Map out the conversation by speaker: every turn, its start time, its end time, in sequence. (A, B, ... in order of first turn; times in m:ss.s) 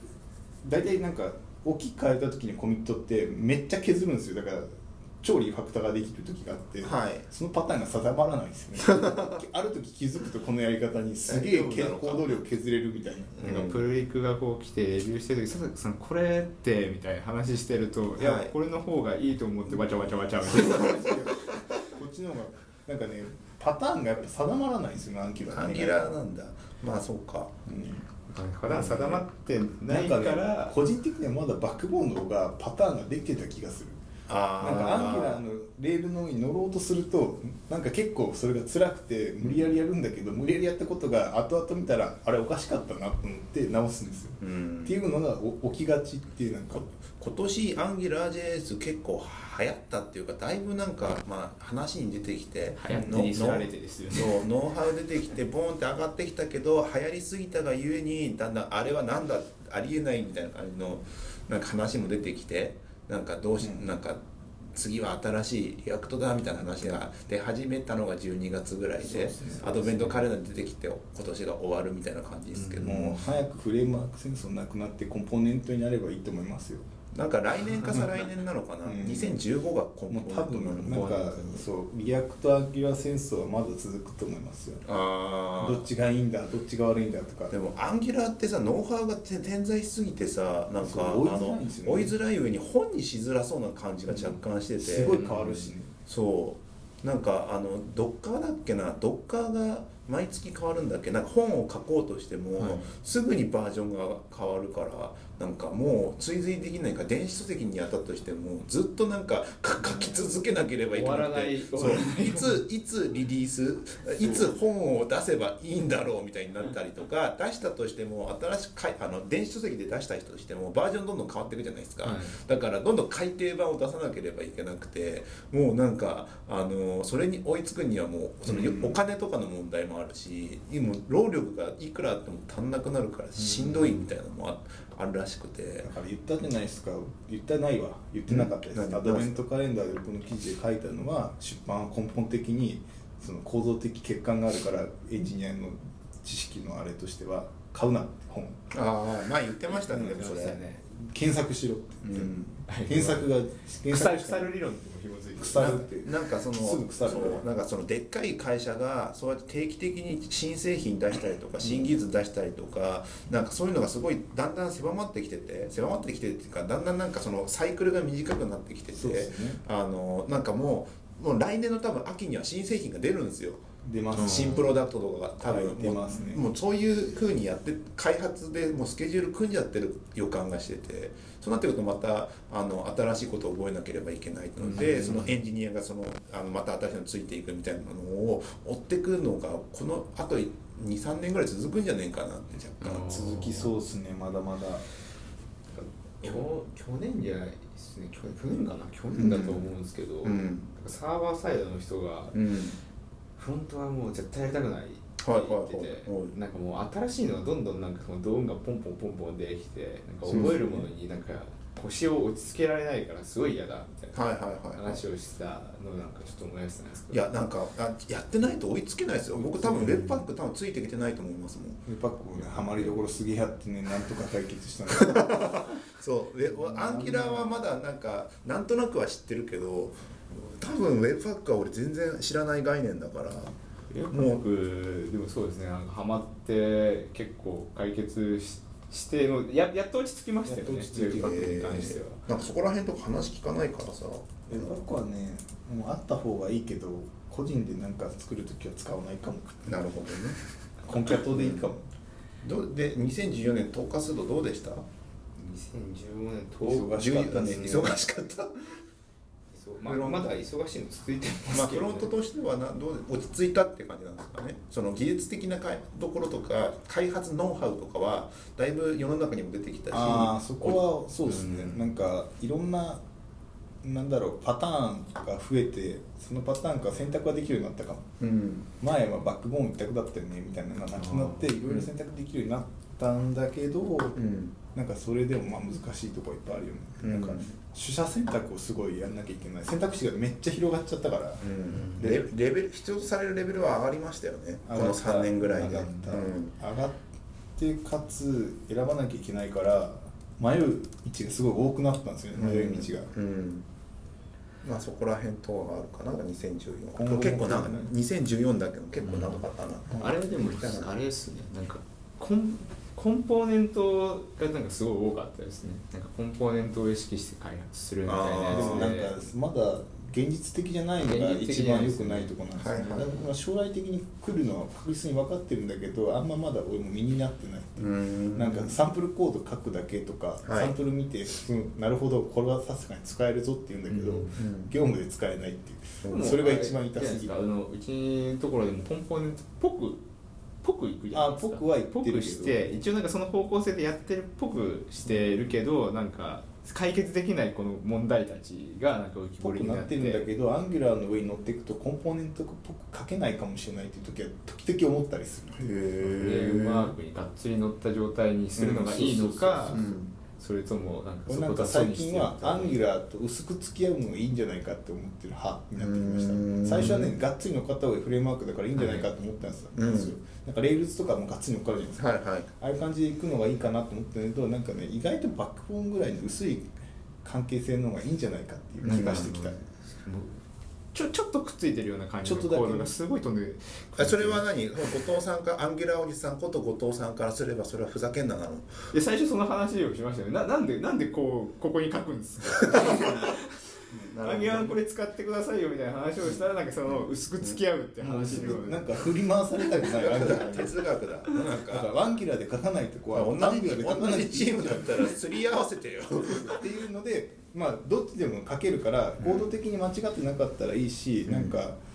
0:00.6-0:13.5 A
0:06.8-0:07.3 B
0:08.8-0:09.4 B
0:11.3-0:12.4 B
0:13.4-0:13.9 B
0:13.4-0:21.2 C
0:18.2-0:18.5 B
0:19.7-0:26.1 A
0:25.5-0:27.5 B
0:27.6-0:28.0 A
0:28.3-0:30.8 C
0:28.7-0:29.2 B
0:29.9-0:34.0 A
0:34.3-0:35.4 B
0:34.6-0:46.9 A
0:44.4-0:45.0 B
0:47.2-1:04.2 B
0:52.8-0:54.4 C
1:03.6-1:03.9 A
1:04.7-1:13.3 B
1:09.0-1:10.1 A
1:09.8-1:10.2 C
1:12.5-1:13.1 C
1:12.8-1:16.9 A
1:17.1-1:21.3 B
1:17.7-1:18.0 C
1:17.9-1:18.2 A
1:18.8-1:19.4 A
1:20.1-1:24.8 A
1:20.9-1:21.6 C
1:24.8-1:25.9 B
1:25.6-1:27.6 A
1:27.5-1:35.3 B
1:30.8-1:32.1 A
1:34.1-1:35.9 A
1:35.1-1:35.7 C
1:36.0-2:15.9 B
1:50.9-1:52.6 C
2:02.0-2:02.4 C
2:08.4-2:09.0 A
2:13.4-2:13.8 A
2:15.8-2:28.6 A
2:18.3-2:19.3 B
2:28.7-2:30.6 B
2:29.7-2:30.8 C
2:29.9-2:30.2 A
2:30.9-2:32.3 A
2:32.0-2:32.6 B
2:32.7-2:33.2 C
2:32.8-2:34.5 A
2:33.9-2:35.8 C
2:35.4-2:37.4 A
2:35.6-3:13.5 B
2:41.6-2:42.0 A
2:48.9-2:49.6 A
2:53.8-2:54.7 A
2:54.2-2:54.6 C
2:55.4-2:56.4 A
3:04.6-3:05.4 C
3:12.8-3:13.7 C
3:13.3-3:14.8 A
3:15.7-3:22.4 C
3:19.1-3:19.7 B
3:20.2-3:20.7 B
3:22.3-3:22.8 B
3:23.4-3:37.2 C
3:25.2-3:26.3 B
3:30.2-3:30.8 B
3:34.1-3:35.0 B
3:37.1-3:41.8 B
3:39.3-3:40.2 A
3:41.8-3:45.6 A
3:42.4-3:42.9 B
3:44.9-3:53.6 B
3:46.5-3:47.5 A
3:53.9-4:02.2 C
3:54.1-3:54.4 B
4:00.6-4:04.8 B
4:00.7-4:01.3 A
4:04.5-4:09.9 A
4:09.7-4:10.4 B
4:10.8-4:11.9 A
4:11.1-4:11.6 B
4:12.4-4:14.8 B
4:15.4-4:17.0 C
4:16.6-4:18.0 A
4:16.9-4:18.8 B
4:19.5-4:22.1 C
4:19.8-4:20.3 B
4:21.5-4:30.8 B
4:29.9-4:33.0 A
4:31.3-4:31.8 C
4:33.8-4:38.1 A
4:38.2-4:38.7 B
4:38.8-4:44.2 A
4:40.9-4:41.5 C
4:44.2-4:44.6 B
4:44.7-4:52.2 A
4:47.0-4:47.5 B
4:51.4-4:56.5 B
4:51.7-4:52.0 C
4:54.7-4:57.0 A
4:55.6-4:56.1 C
4:57.6-5:03.1 A
5:02.4-5:03.6 B
5:04.6-5:11.0 B
5:06.9-5:07.9 A
5:09.0-5:09.4 C
5:10.0-5:19.2 C
5:18.0-5:19.0 B
5:18.5-5:37.3 A
5:21.0-5:23.2 C
5:22.6-5:23.0 B
5:27.8-5:28.8 B
5:30.4-5:30.8 B
5:33.9-5:34.3 C
5:34.2-5:34.7 B
5:36.0-5:36.3 B
5:36.0-5:40.0 C
5:40.6-5:50.3 C
5:41.1-5:42.6 A
5:49.4-5:55.6 A
5:55.6-5:56.9 B
5:56.2-6:02.8 C
5:58.6-5:59.9 A
5:59.7-6:00.1 B
6:01.3-6:12.0 A
6:05.8-6:07.1 B
6:08.8-6:09.1 C
6:09.7-6:10.1 B
6:12.0-6:12.5 B
6:12.6-6:16.7 A
6:17.2-6:19.6 A
6:18.8-6:20.4 C
6:18.8-6:19.4 B
6:20.9-6:24.4 C
6:22.2-6:22.9 A
6:24.0-6:28.9 B
6:28.9-6:33.6 C
6:32.7-6:33.1 B
6:33.9-6:34.8 B
6:34.2-6:39.0 C
6:36.2-6:37.6 B
6:38.0-6:40.8 A
6:39.7-6:41.9 B
6:41.6-6:45.1 A
6:43.1-6:46.6 B
6:46.2-6:51.8 A
6:49.2-6:49.5 B
6:51.3-6:51.5 B